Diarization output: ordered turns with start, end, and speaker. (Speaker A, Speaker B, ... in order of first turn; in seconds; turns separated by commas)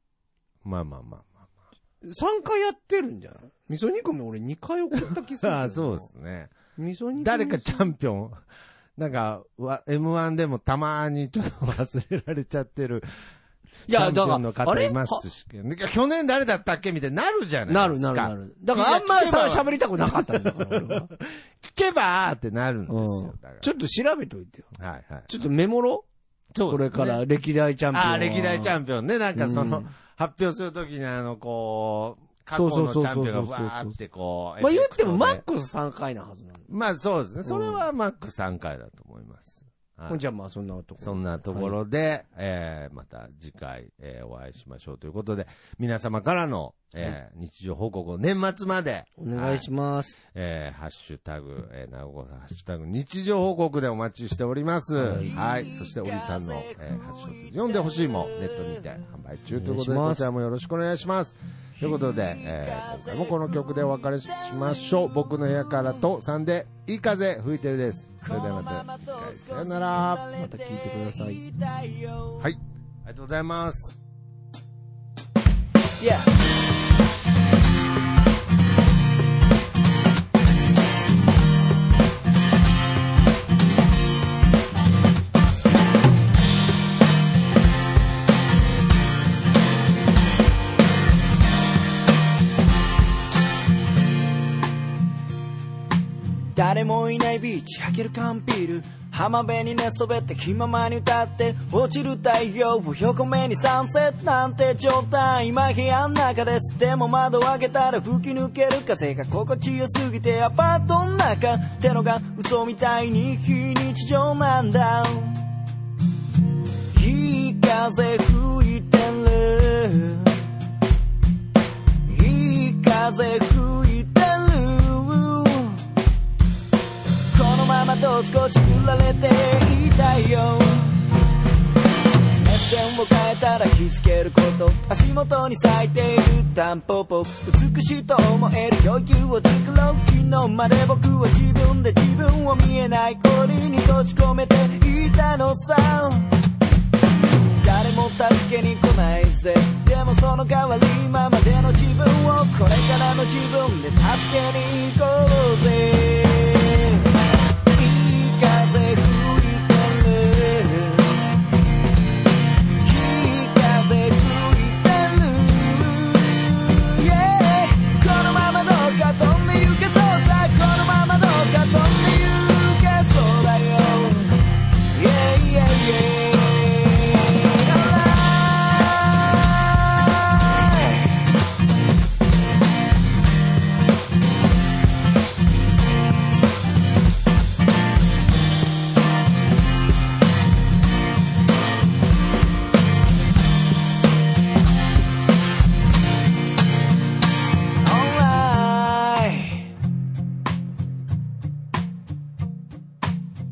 Speaker A: 0.6-1.4, Speaker B: 2.0-6.1, Speaker A: 4.9-6.5, Speaker B: 6.8-7.9, Speaker A: 7.2-8.4, Speaker A: 9.0-13.1, Speaker B: 13.9-15.2, Speaker A: 13.9-23.7, Speaker B: 17.7-21.1, Speaker B: 22.9-24.7, Speaker A: 24.7-25.3, Speaker B: 25.3-26.1, Speaker A: 26.5-27.2, Speaker B: 26.7-28.8, Speaker A: 27.9-35.4, Speaker B: 29.3-29.9, Speaker B: 32.5-34.0, Speaker B: 34.6-36.7, Speaker A: 36.7-40.2, Speaker B: 37.4-37.8, Speaker B: 40.1-41.8, Speaker A: 41.0-49.7, Speaker B: 49.2-50.1, Speaker A: 50.2-70.2, Speaker B: 55.0-55.4, Speaker C: 55.2-58.9, Speaker B: 59.5-60.3, Speaker C: 61.8-63.7, Speaker C: 64.2-64.8, Speaker C: 68.2-72.5, Speaker B: 70.3-71.4, Speaker A: 72.4-74.0, Speaker C: 76.0-76.3, Speaker C: 96.5-115.5, Speaker C: 116.9-120.5, Speaker C: 122.0-125.9, Speaker C: 127.3-131.0, Speaker C: 132.4-146.3, Speaker C: 147.3-157.1, Speaker C: 157.7-161.3, Speaker C: 162.8-181.1, Speaker C: 197.8-199.7